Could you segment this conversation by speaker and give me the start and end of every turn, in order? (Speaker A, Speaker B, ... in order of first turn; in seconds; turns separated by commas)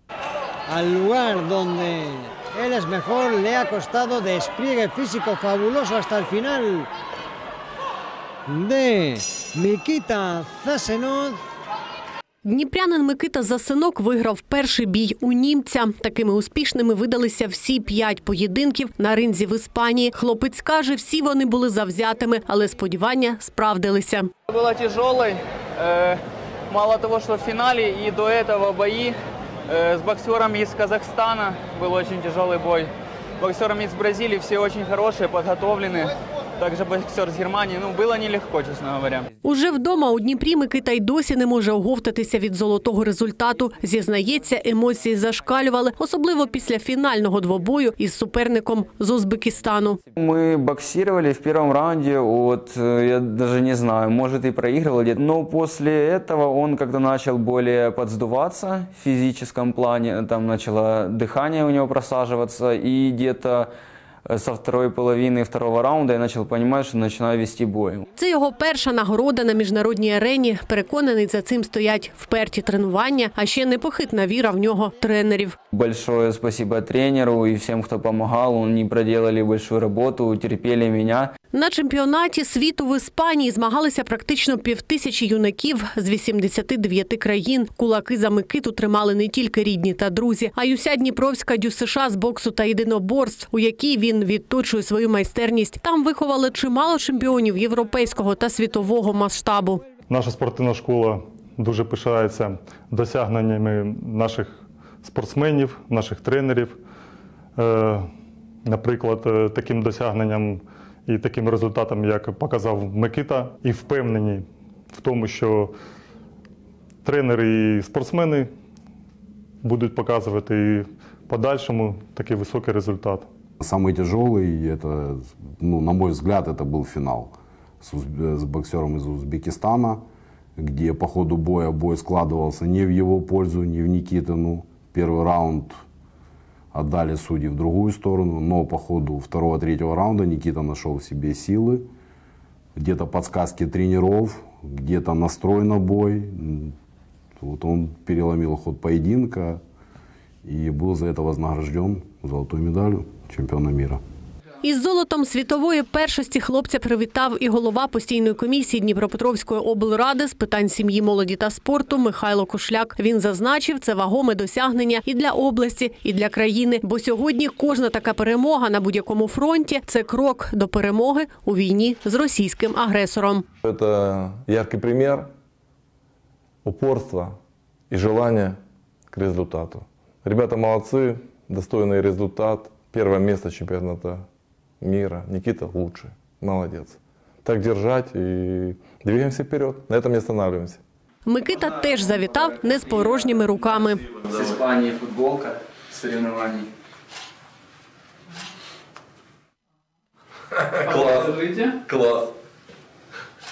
Speaker A: 0.7-6.9, Speaker A: 8.4-11.4, Speaker B: 12.4-24.3, Speaker C: 24.5-29.2, Speaker C: 29.7-39.3, Speaker B: 39.4-50.0, Speaker D: 50.1-63.7, Speaker D: 64.3-68.0, Speaker B: 68.2-75.5, Speaker D: 75.7-81.3, Speaker B: 81.5-99.8, Speaker E: 100.1-106.8, Speaker E: 107.6-108.0, Speaker E: 108.7-115.7, Speaker E: 117.0-118.5, Speaker E: 119.6-123.2, Speaker F: 123.6-130.0, Speaker F: 130.6-135.8, Speaker F: 136.7-141.9, Speaker F: 142.8-146.7, Speaker F: 147.4-149.6, Speaker F: 150.4-154.0, Speaker B: 154.6-173.4, Speaker G: 173.6-175.3, Speaker G: 176.6-177.4, Speaker G: 177.9-178.6, Speaker G: 179.1-184.2, Speaker G: 184.8-190.8, Speaker B: 191.2-194.1, Speaker D: 194.2-196.7, Speaker G: 200.8-201.3, Speaker D: 200.8-201.7, Speaker G: 201.9-202.3